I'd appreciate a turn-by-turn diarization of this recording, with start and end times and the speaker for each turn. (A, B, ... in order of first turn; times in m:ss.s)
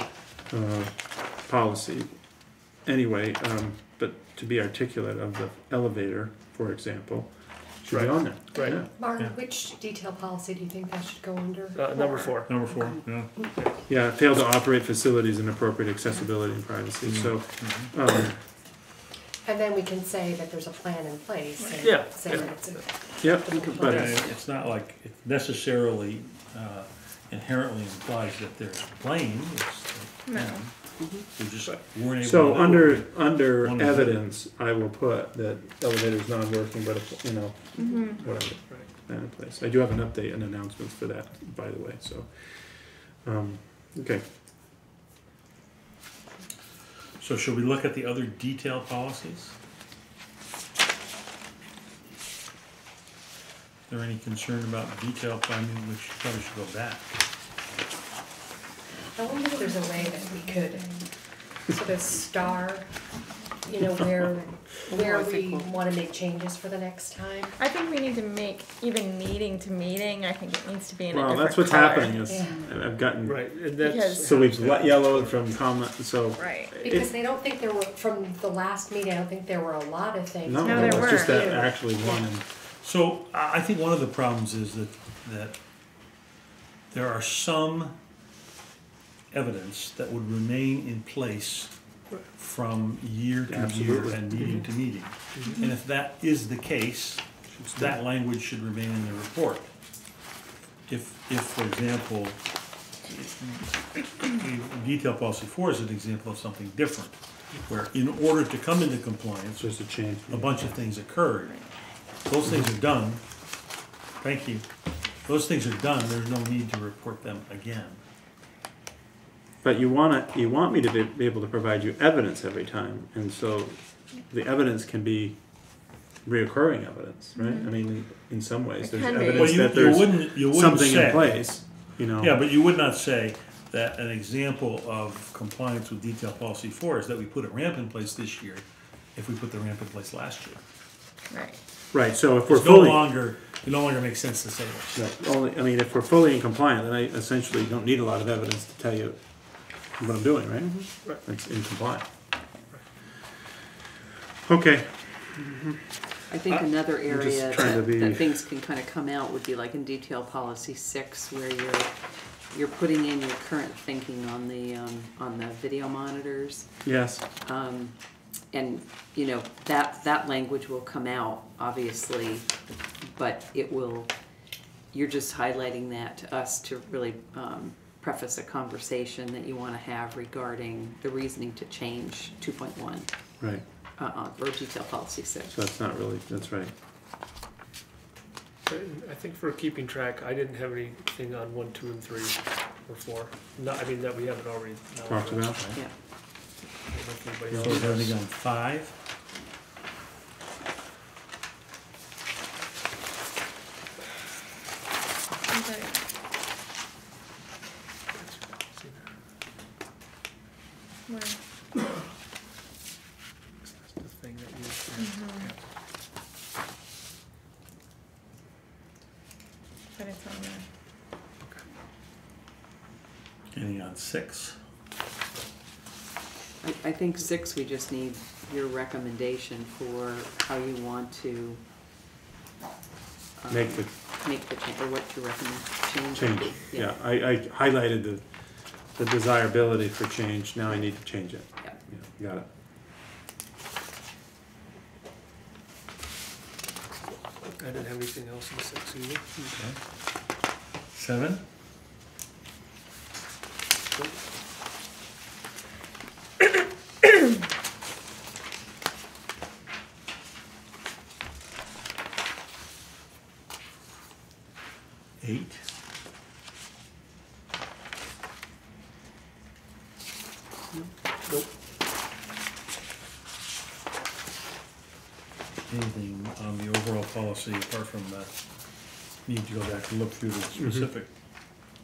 0:00.5-0:02.1 A
0:02.8-0:08.9 A
0:07.9-0:08.8 B
0:08.6-0:13.0 C
0:11.8-0:12.6 B
0:12.4-0:13.4 D
0:13.9-0:18.4 A
0:17.0-0:17.9 D
0:19.4-0:24.4 C
0:21.6-0:21.9 E
0:21.8-0:22.8 B
0:23.2-0:24.2 A
0:23.6-0:24.3 F
0:23.8-0:34.2 D
0:30.3-0:30.6 E
0:31.0-0:31.3 F
0:31.7-0:44.2 A
0:37.8-0:38.2 E
0:47.2-0:49.5 D
0:53.9-0:57.1 D
0:59.2-1:01.1 C
0:59.8-1:00.7 E
1:01.7-1:02.9 C
1:03.6-1:07.6 C
1:04.9-1:05.8 F
1:07.6-1:12.2 E
1:11.1-1:13.6 A
1:12.3-1:12.7 C
1:13.2-1:15.4 B
1:13.8-1:14.4 E
1:14.2-1:17.2 A
1:16.4-1:16.7 E
1:16.8-1:22.2 C
1:20.4-1:22.4 A
1:20.6-1:21.5 E
1:22.8-1:25.6 D
1:26.9-1:28.0 D
1:29.3-1:31.7 D
1:32.3-1:39.7 D
1:33.5-1:34.7 A
1:34.4-1:34.6 B
1:35.4-1:35.7 E
1:40.9-1:42.4 D
1:43.0-1:47.2 D
1:47.7-1:49.8 D
1:49.6-1:50.6 A
1:50.3-1:51.6 D
1:52.3-1:53.2 D
1:54.2-1:54.6 D
1:55.2-1:58.0 D
1:59.6-2:05.4 A
2:06.2-2:12.4 A
2:07.4-2:07.7 E
2:08.8-2:09.7 E
2:09.4-2:11.6 D
2:12.1-2:20.6 D
2:21.3-2:21.6 E
2:21.9-2:23.1 A
2:22.5-2:25.0 D
2:25.0-2:32.1 A
2:34.4-2:36.1 A
2:36.3-2:41.9 F
2:37.0-2:38.4 A
2:42.5-2:46.7 F
2:46.8-2:47.2 A
2:47.4-2:48.0 F
2:48.5-2:52.5 F
2:53.0-2:54.1 F
2:54.9-3:03.1 F
3:04.0-3:05.6 F
3:05.5-3:06.7 A
3:08.7-3:15.5 B
3:15.1-3:15.7 A
3:16.9-3:18.2 B
3:17.5-3:17.8 A
3:17.6-3:19.0 D
3:25.5-3:26.0 E
3:28.1-3:29.1 B
3:31.1-3:31.4 E
3:33.6-3:35.6 B
3:35.0-3:35.5 E
3:40.0-3:40.6 E
3:43.5-3:44.6 D
3:46.6-3:51.6 F
3:53.4-3:57.0 F
3:53.5-3:53.9 A
3:56.1-4:02.5 A
4:07.4-4:09.4 B
4:09.5-4:09.8 D
4:10.9-4:11.4 D
4:25.2-4:25.6 D
4:30.7-4:31.5 B
4:35.7-4:38.3 D
4:39.2-4:41.6 D